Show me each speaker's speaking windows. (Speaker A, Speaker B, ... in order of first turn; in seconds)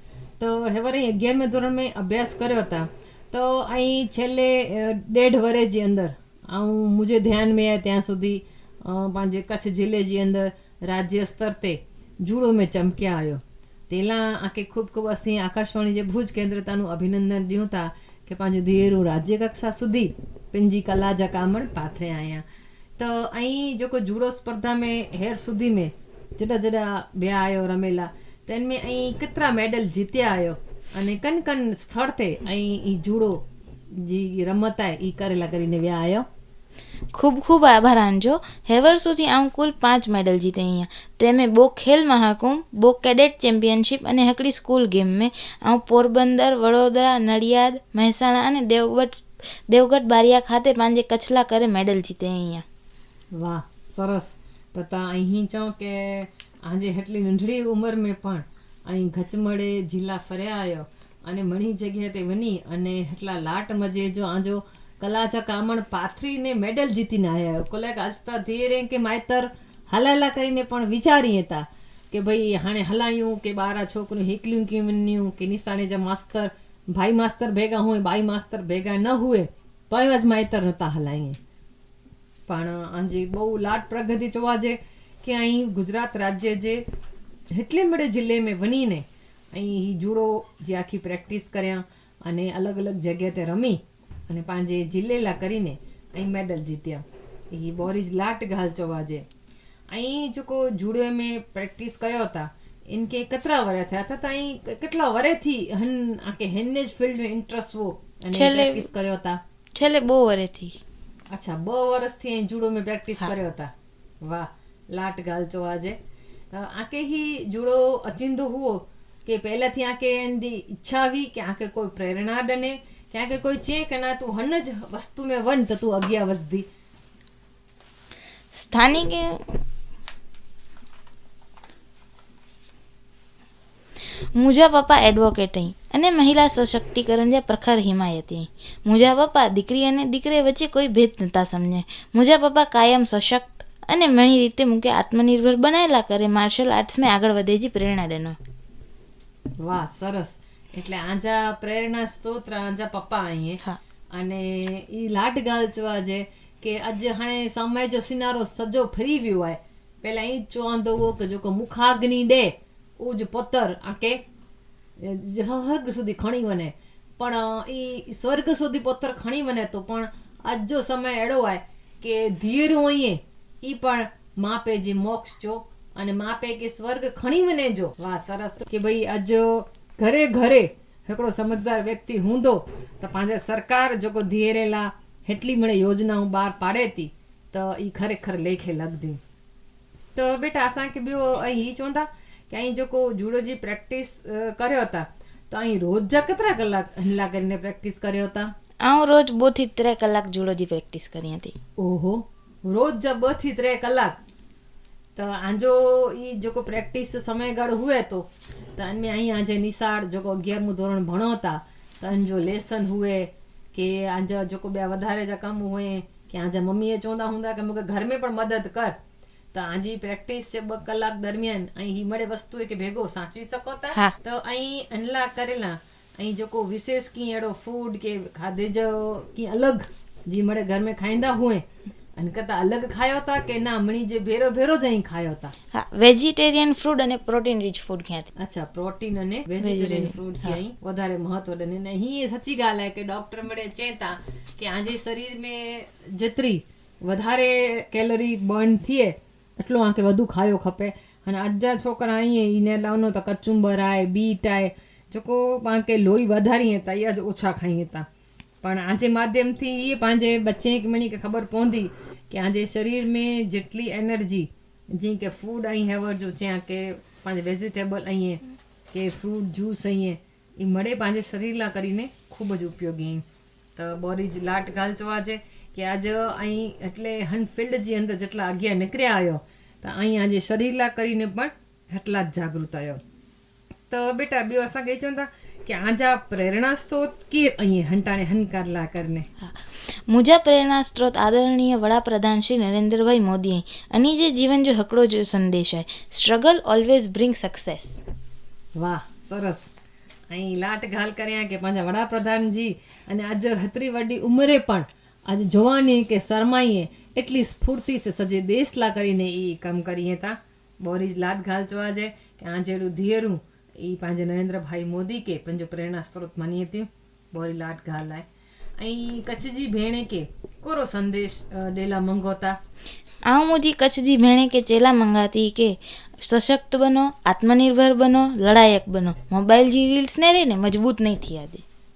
Speaker A: 0.4-22.4, 23.0-36.2, 53.3-81.4, 82.5-86.8, 87.5-99.2, 99.9-109.4, 111.3-116.0, 116.5-126.7, 149.6-153.6, 154.1-164.2, 165.0-189.2, 190.1-198.5, 201.8-204.2, 205.1-219.0, 219.5-235.5, 238.4-258.1, 258.6-273.2, 273.8-283.0, 283.9-289.3, 298.8-299.7, 300.3-318.3, 318.8-322.6
Speaker B: 37.1-52.6, 108.3-108.9, 109.8-110.8, 128.5-129.6, 134.1-148.4, 198.8-201.5, 235.7-238.3, 239.6-240.6, 289.4-298.0, 323.3-331.6